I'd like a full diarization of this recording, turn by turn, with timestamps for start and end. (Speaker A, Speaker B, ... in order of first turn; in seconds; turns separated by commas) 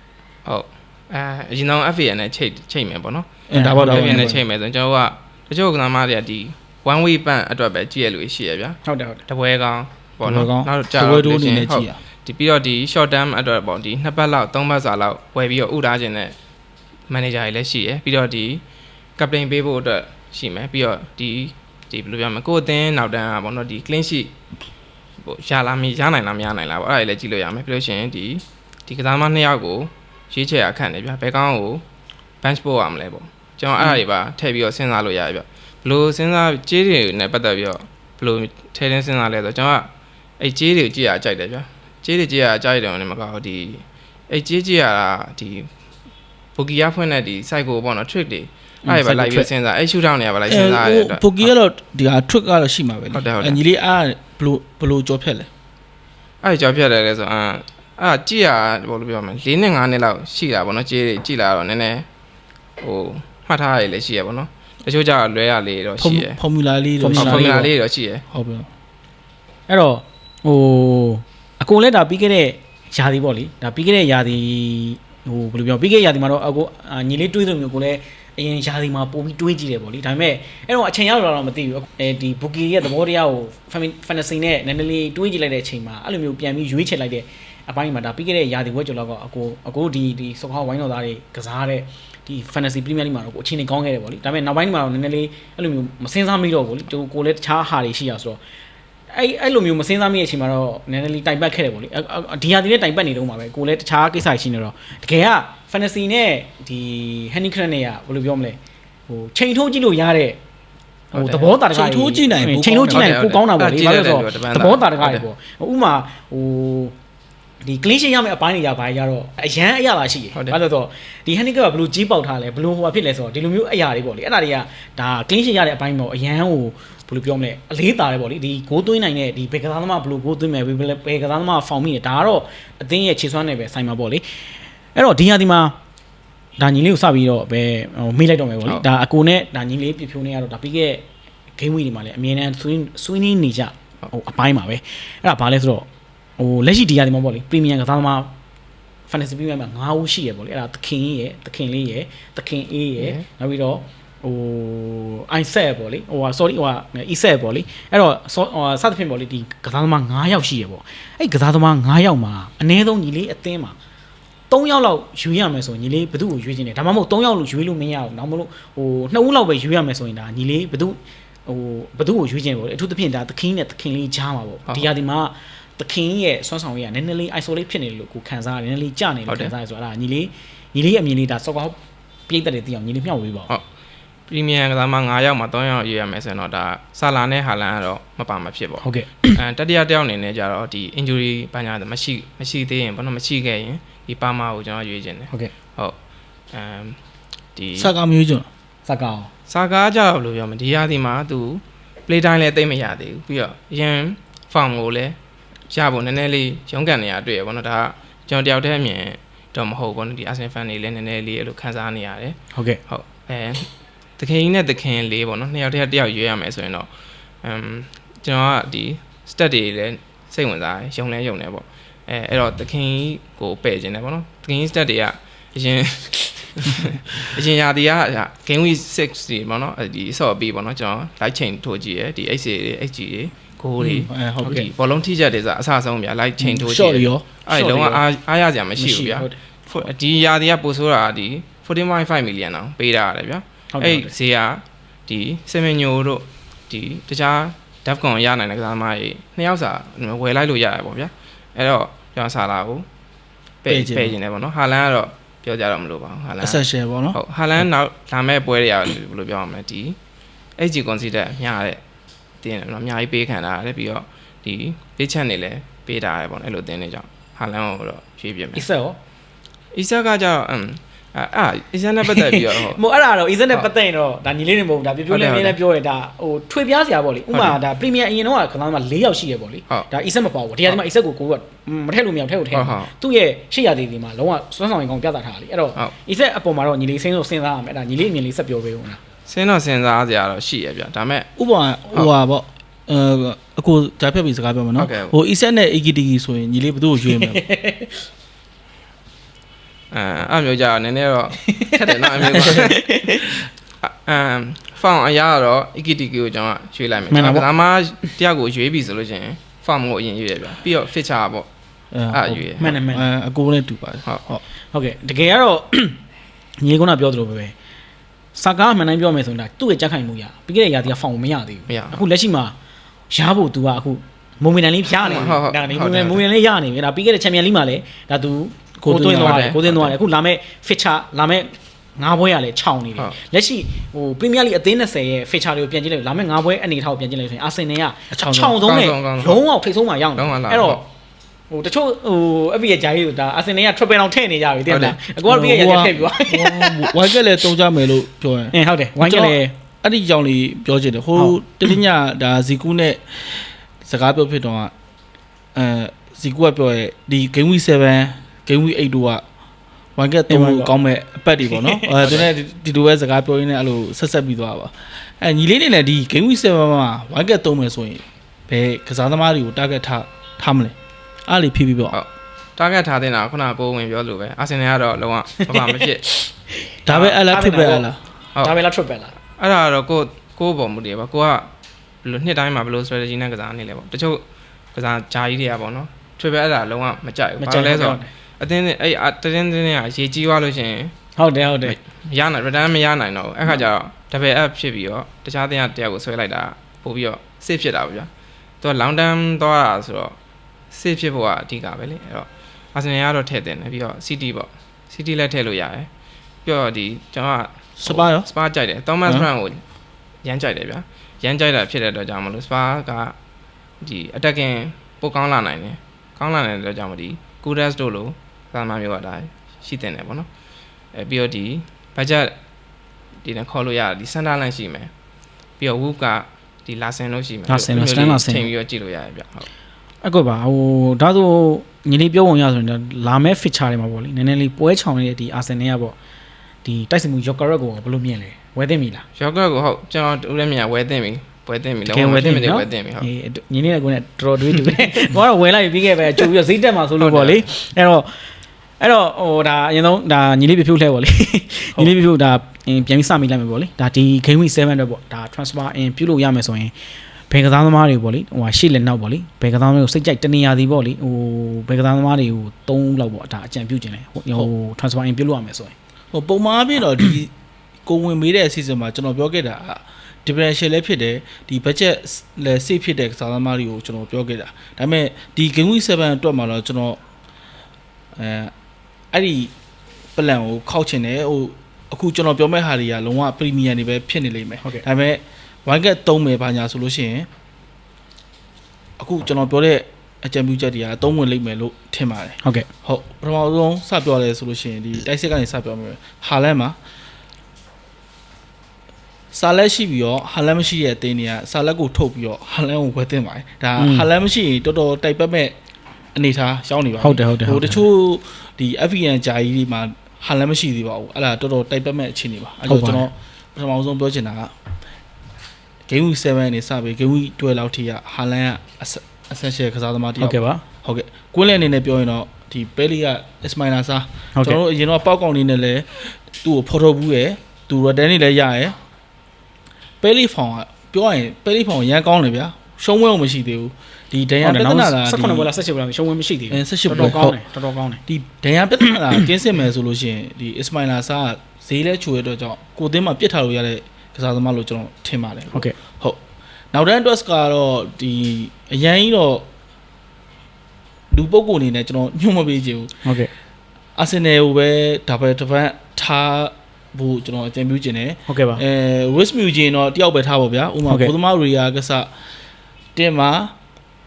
Speaker A: 0.5-16.3, Speaker B: 3.5-4.4, Speaker C: 3.5-4.3, Speaker C: 8.8-9.2, Speaker B: 10.2-11.9, Speaker A: 17.1-18.6, Speaker A: 19.2-24.3, Speaker A: 25.2-31.8, Speaker A: 32.4-39.9, Speaker A: 40.4-45.7, Speaker A: 46.5-51.5, Speaker B: 48.9-49.5, Speaker C: 49.0-49.4, Speaker B: 50.5-55.5, Speaker A: 53.1-53.6, Speaker A: 56.4-62.1, Speaker A: 62.8-66.4, Speaker B: 66.0-67.7, Speaker C: 67.0-67.6, Speaker A: 67.1-68.2, Speaker B: 68.3-68.7, Speaker C: 69.7-98.4, Speaker C: 99.1-108.6, Speaker C: 109.1-110.4, Speaker C: 111.1-116.9, Speaker A: 111.1-111.5, Speaker B: 111.7-113.1, Speaker A: 112.9-115.2, Speaker C: 117.6-134.2, Speaker C: 134.9-135.7, Speaker C: 136.6-141.0, Speaker C: 141.6-145.9, Speaker C: 146.4-148.3, Speaker C: 149.1-163.8, Speaker A: 153.0-153.2, Speaker C: 164.5-181.8, Speaker C: 182.3-183.5, Speaker A: 184.3-195.9, Speaker C: 188.8-189.4, Speaker A: 196.5-197.0, Speaker A: 197.5-197.9, Speaker B: 197.8-198.5, Speaker C: 198.9-199.3, Speaker A: 199.5-205.2, Speaker A: 205.7-212.4, Speaker C: 212.5-212.8, Speaker A: 212.9-216.9, Speaker A: 217.4-252.8, Speaker C: 233.8-234.7, Speaker B: 234.1-234.7, Speaker B: 236.4-238.0, Speaker C: 237.6-237.9, Speaker C: 238.8-239.4, Speaker C: 243.7-244.1, Speaker A: 253.6-260.0, Speaker B: 253.7-254.1, Speaker B: 256.4-257.6, Speaker A: 260.6-261.8, Speaker A: 262.4-268.6, Speaker C: 268.5-269.0, Speaker A: 269.7-272.8, Speaker C: 272.0-289.0, Speaker A: 275.1-275.6, Speaker A: 277.3-277.6, Speaker A: 282.5-282.9, Speaker A: 289.3-291.3, Speaker B: 291.4-297.4, Speaker A: 294.8-295.1, Speaker C: 297.1-297.9, Speaker A: 299.9-311.5, Speaker B: 302.3-302.7, Speaker C: 302.3-303.1, Speaker C: 307.1-307.5, Speaker B: 311.9-314.4, Speaker A: 312.1-312.7, Speaker C: 312.6-313.1, Speaker C: 314.7-316.0, Speaker C: 316.6-317.5, Speaker C: 318.3-322.5, Speaker A: 321.7-322.0, Speaker C: 323.1-340.9, Speaker A: 324.9-326.2, Speaker B: 328.8-329.9, Speaker A: 329.2-329.6, Speaker B: 338.1-338.6, Speaker A: 338.6-339.4, Speaker A: 340.1-340.8, Speaker C: 341.5-347.1, Speaker A: 344.7-345.0, Speaker B: 345.3-354.7, Speaker C: 348.5-349.5, Speaker B: 355.5-359.2, Speaker B: 359.9-370.7, Speaker C: 360.3-360.7, Speaker C: 361.5-362.1, Speaker B: 371.3-371.9, Speaker A: 371.9-376.0, Speaker C: 375.4-376.6, Speaker B: 376.9-378.0, Speaker A: 376.9-377.2, Speaker C: 377.1-377.9, Speaker C: 378.4-379.1, Speaker A: 379.4-381.5, Speaker A: 382.0-384.2, Speaker A: 384.7-390.9, Speaker C: 387.4-388.1, Speaker C: 391.2-391.7, Speaker A: 391.6-398.1, Speaker A: 398.6-400.1, Speaker A: 400.7-405.9, Speaker A: 406.4-409.6, Speaker B: 407.8-408.3, Speaker A: 410.2-413.1, Speaker A: 413.8-420.3, Speaker A: 420.9-422.4, Speaker A: 423.2-424.9, Speaker A: 425.6-429.5, Speaker C: 427.5-428.5, Speaker C: 430.0-435.9, Speaker C: 436.6-439.0, Speaker A: 439.2-443.1, Speaker C: 441.9-448.2, Speaker A: 447.0-447.5, Speaker C: 448.8-456.7, Speaker C: 457.3-465.7, Speaker B: 466.1-467.3, Speaker B: 467.8-477.0, Speaker B: 478.1-478.5, Speaker B: 479.1-479.5, Speaker B: 480.1-487.3, Speaker B: 489.0-496.8, Speaker B: 499.3-505.6, Speaker C: 503.8-504.1, Speaker B: 506.1-514.5, Speaker C: 507.0-507.8, Speaker C: 512.6-513.1, Speaker B: 515.9-528.8, Speaker C: 520.2-520.6, Speaker B: 530.0-535.5, Speaker C: 534.4-538.0, Speaker B: 536.5-537.4, Speaker B: 538.1-546.2, Speaker C: 538.8-539.2, Speaker B: 546.7-549.5, Speaker B: 551.1-552.9, Speaker C: 553.0-553.3, Speaker B: 554.0-562.1, Speaker C: 558.3-558.6, Speaker C: 560.9-561.1, Speaker B: 563.0-563.5